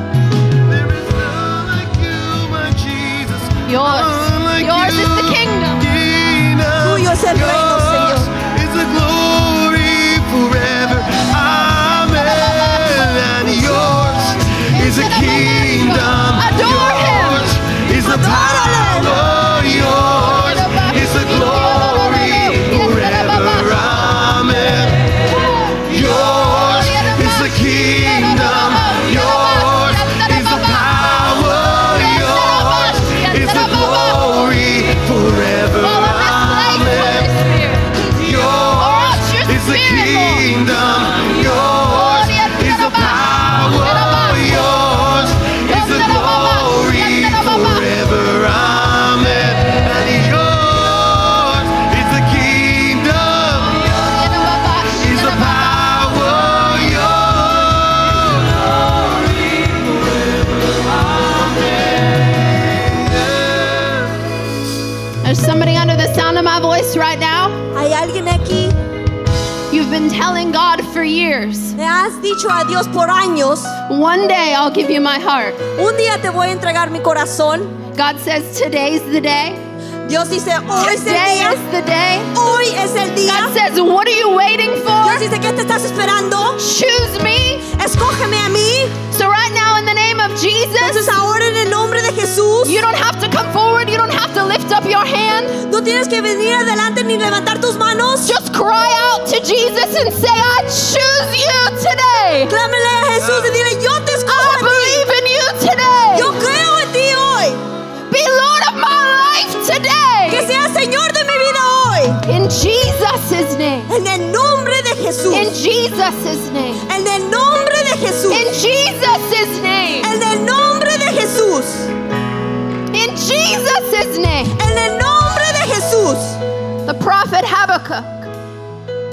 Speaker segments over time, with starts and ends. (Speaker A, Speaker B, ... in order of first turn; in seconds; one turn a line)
Speaker A: 0.7-25.1
Speaker B: 3.7-5.8
Speaker C: 6.8-8.3
Speaker B: 14.7-17.5
Speaker C: 18.0-19.1
Speaker B: 20.2-24.0
Speaker B: 25.3-25.9
Speaker A: 25.9-37.3
Speaker B: 26.5-34.4
Speaker B: 35.8-38.0
Speaker A: 38.1-53.9
Speaker B: 38.8-40.5
Speaker B: 41.8-44.7
Speaker B: 45.6-47.9
Speaker B: 53.9-55.8
Speaker A: 55.0-58.5
Speaker A: 61.3-64.1
Speaker B: 65.2-67.6
Speaker C: 67.7-68.8
Speaker B: 69.7-71.8
Speaker C: 71.8-73.8
Speaker B: 73.9-75.6
Speaker C: 75.8-77.8
Speaker B: 77.9-79.6
Speaker C: 80.1-81.6
Speaker B: 80.8-82.3
Speaker C: 82.3-83.6
Speaker B: 83.2-85.2
Speaker C: 85.0-86.6
Speaker B: 86.6-87.7
Speaker C: 87.7-89.0
Speaker B: 89.1-91.0
Speaker C: 90.8-92.8
Speaker B: 92.6-95.6
Speaker C: 95.7-98.3
Speaker B: 98.2-102.5
Speaker C: 102.5-105.0
Speaker A: 103.2-103.5
Speaker B: 104.3-106.4
Speaker C: 106.1-107.6
Speaker B: 108.1-110.5
Speaker C: 110.3-112.2
Speaker B: 112.2-113.9
Speaker C: 113.9-115.5
Speaker B: 115.3-116.9
Speaker C: 116.9-118.5
Speaker B: 118.3-120.1
Speaker C: 120.0-121.9
Speaker B: 122.9-124.6
Speaker C: 124.6-126.4
Speaker B: 126.9-128.3